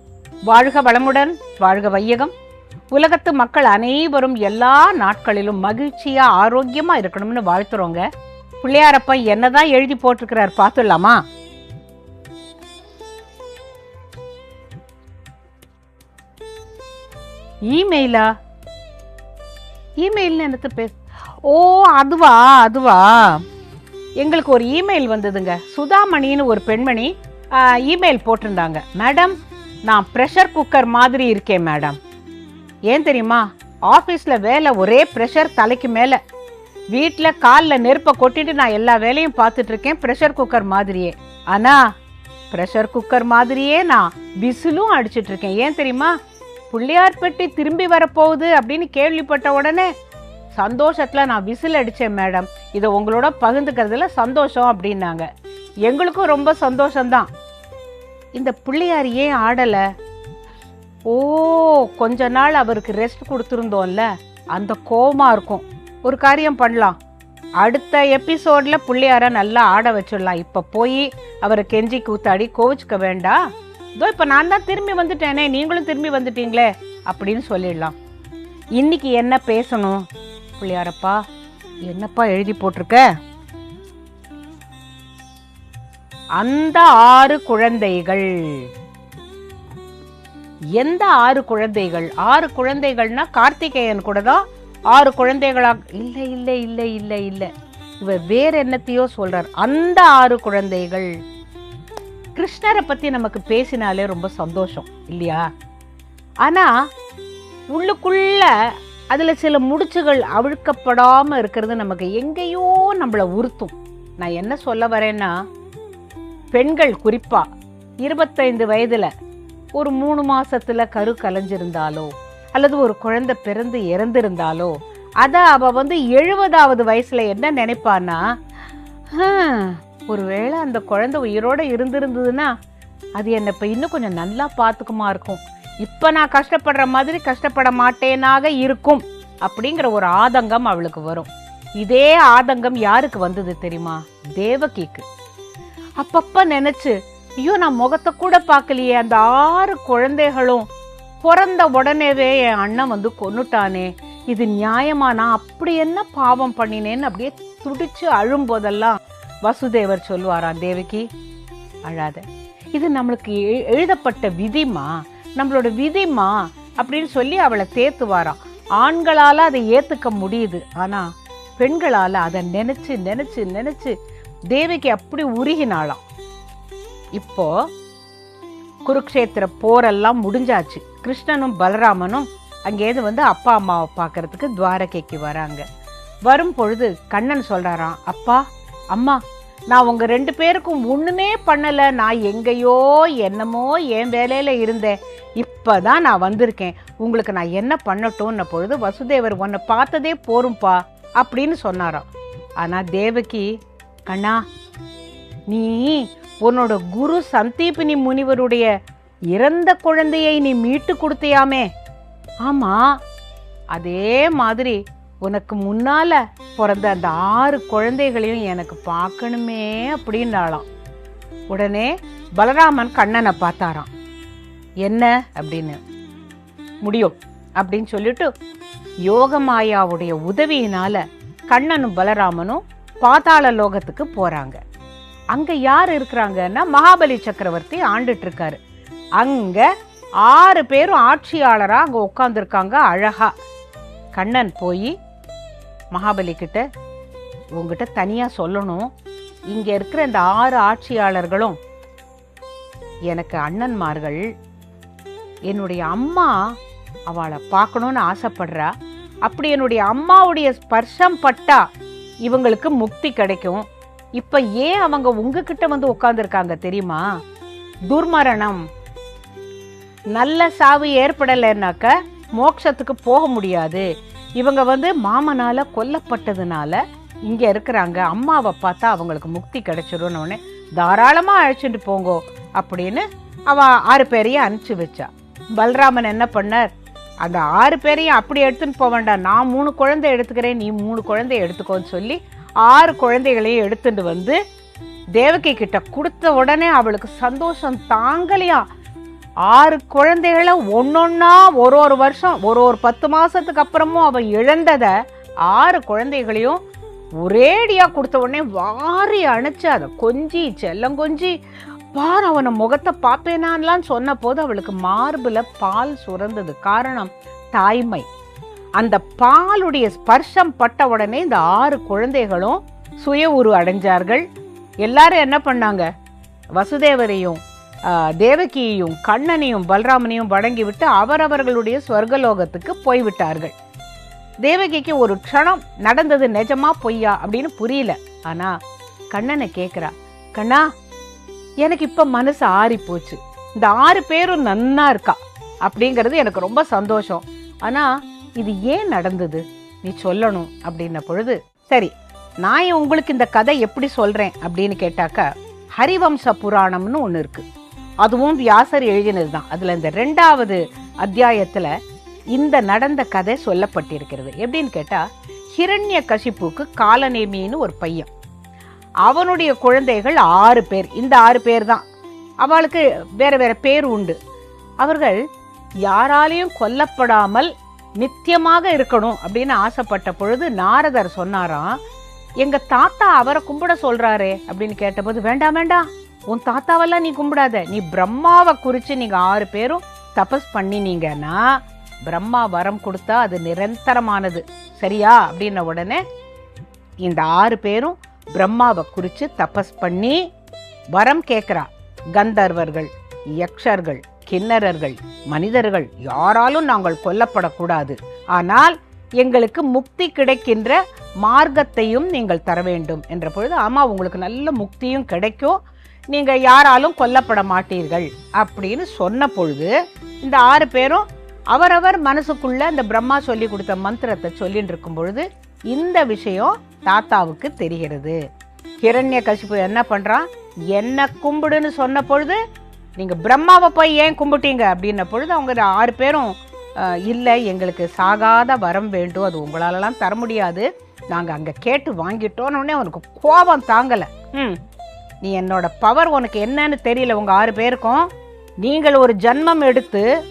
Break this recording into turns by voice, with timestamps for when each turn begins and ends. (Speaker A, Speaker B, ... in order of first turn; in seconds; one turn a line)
Speaker A: 0.5-2.3
Speaker A: 2.9-8.0
Speaker A: 8.6-11.2
Speaker A: 17.7-18.3
Speaker A: 20.0-20.9
Speaker A: 21.5-23.4
Speaker A: 24.2-29.3
Speaker A: 29.9-32.0
Speaker A: 32.9-36.2
Speaker A: 36.9-41.8
Speaker A: 42.5-46.1
Speaker A: 46.7-49.9
Speaker A: 50.5-55.2
Speaker A: 55.9-57.3
Speaker A: 58.4-59.8
Speaker A: 61.1-67.0
Speaker A: 67.6-73.4
Speaker A: 74.0-78.0
Speaker A: 78.8-80.0
Speaker A: 80.6-81.2
Speaker A: 81.9-83.0
Speaker A: 86.4-88.6
Speaker A: 90.8-94.4
Speaker A: 94.9-101.1
Speaker A: 102.3-105.4
Speaker A: 106.4-106.7
Speaker A: 107.7-108.5
Speaker A: 109.1-115.3
Speaker A: 116.5-117.5
Speaker A: 118.0-119.1
Speaker A: 119.8-128.2
Speaker A: 129.1-132.5
Speaker A: 133.2-145.0
Speaker A: 146.0-150.7
Speaker A: 151.2-161.1
Speaker A: 161.9-162.2
Speaker A: 162.7-171.1
Speaker A: 171.6-173.9
Speaker A: 174.5-176.0
Speaker A: 177.2-177.5
Speaker A: 178.9-185.6
Speaker A: 186.3-188.4
Speaker A: 188.9-189.2
Speaker A: 189.7-202.1
Speaker A: 202.6-203.5
Speaker A: 204.1-204.4
Speaker A: 205.5-208.7
Speaker A: 209.3-211.7
Speaker A: 212.4-212.9
Speaker A: 213.7-220.7
Speaker A: 221.5-223.9
Speaker A: 224.8-225.8
Speaker A: 226.8-228.3
Speaker A: 229.1-234.6
Speaker A: 235.3-238.6
Speaker A: 239.2-239.6
Speaker A: 240.2-243.3
Speaker A: 244.1-244.9
Speaker A: 245.9-246.6
Speaker A: 247.6-248.9
Speaker A: 249.5-251.6
Speaker A: 253.1-254.2
Speaker A: 255.5-256.3
Speaker A: 257.1-258.7
Speaker A: 259.2-261.6
Speaker A: 262.3-263.6
Speaker A: 264.2-267.0
Speaker A: 267.9-268.6
Speaker A: 270.1-273.8
Speaker A: 274.4-286.7
Speaker A: 287.2-294.4
Speaker A: 295.2-298.6
Speaker A: 299.4-304.9
Speaker A: 305.5-306.6
Speaker A: 307.2-311.4
Speaker A: 311.9-318.0
Speaker A: 318.8-324.2
Speaker A: 324.8-325.9
Speaker A: 326.6-333.5
Speaker A: 334.4-338.5
Speaker A: 339.1-340.6
Speaker A: 341.6-351.9
Speaker A: 352.4-355.3
Speaker A: 355.8-357.4
Speaker A: 358.0-361.7
Speaker A: 362.3-365.0
Speaker A: 365.6-368.1
Speaker A: 369.0-371.8
Speaker A: 372.4-374.1
Speaker A: 374.8-375.2
Speaker A: 375.9-381.7
Speaker A: 382.4-391.4
Speaker A: 392.1-396.0
Speaker A: 397.0-400.2
Speaker A: 400.9-415.6
Speaker A: 416.1-419.7
Speaker A: 420.2-428.2
Speaker A: 428.8-432.4
Speaker A: 433.0-444.6
Speaker A: 445.2-448.1
Speaker A: 448.6-450.1